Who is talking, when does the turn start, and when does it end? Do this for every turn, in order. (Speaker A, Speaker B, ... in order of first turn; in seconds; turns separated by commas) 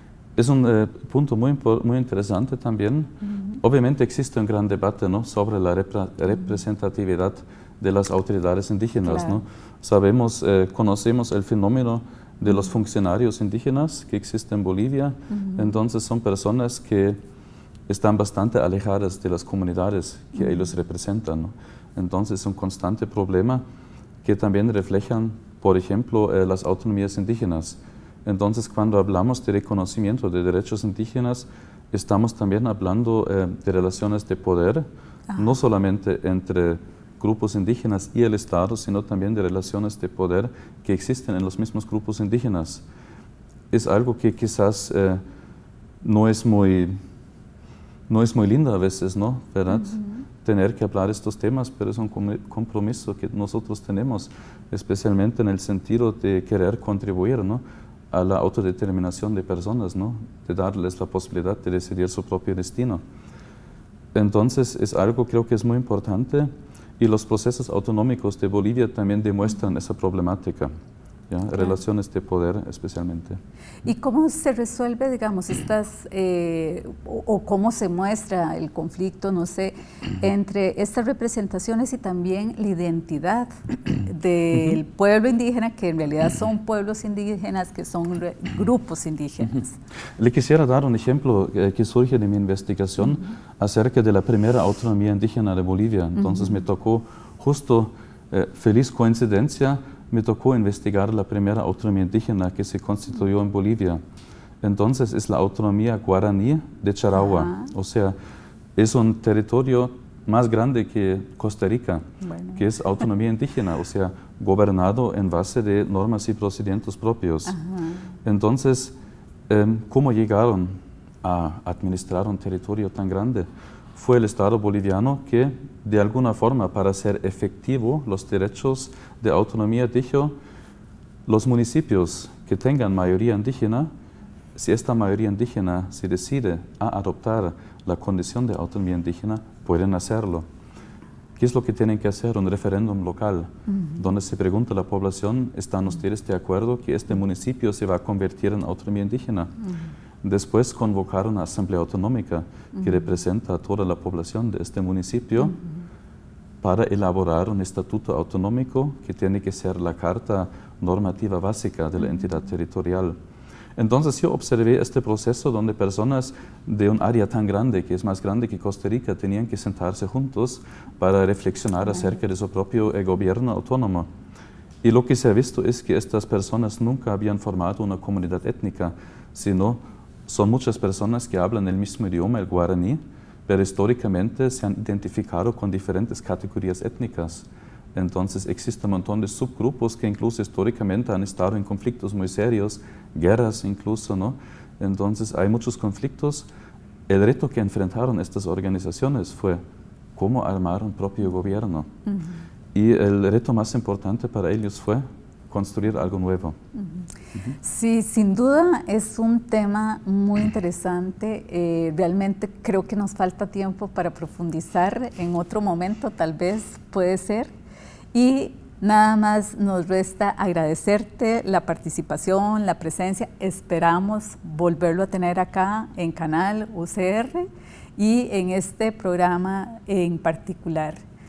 Speaker A: 0.4-17.2, Speaker B: 9.1-9.4, Speaker B: 15.3-15.6, Speaker A: 17.9-23.6, Speaker A: 24.2-42.8, Speaker A: 43.7-45.2, Speaker A: 46.0-47.0, Speaker A: 48.1-63.0, Speaker A: 64.1-70.7, Speaker A: 71.3-73.4, Speaker B: 73.8-89.8, Speaker A: 90.2-104.0, Speaker A: 104.6-108.2, Speaker A: 108.8-117.6, Speaker B: 112.2-112.6, Speaker B: 117.5-118.0, Speaker A: 118.2-119.0, Speaker A: 119.5-130.3, Speaker A: 131.3-133.9, Speaker A: 134.6-140.5, Speaker A: 141.4-149.5, Speaker B: 143.7-144.0, Speaker A: 150.2-155.6, Speaker A: 156.6-163.2, Speaker A: 163.8-174.1, Speaker A: 174.8-196.5, Speaker A: 197.1-199.6, Speaker A: 200.2-201.9, Speaker B: 202.1-202.4, Speaker A: 202.7-206.6, Speaker B: 206.8-217.6, Speaker B: 218.1-231.0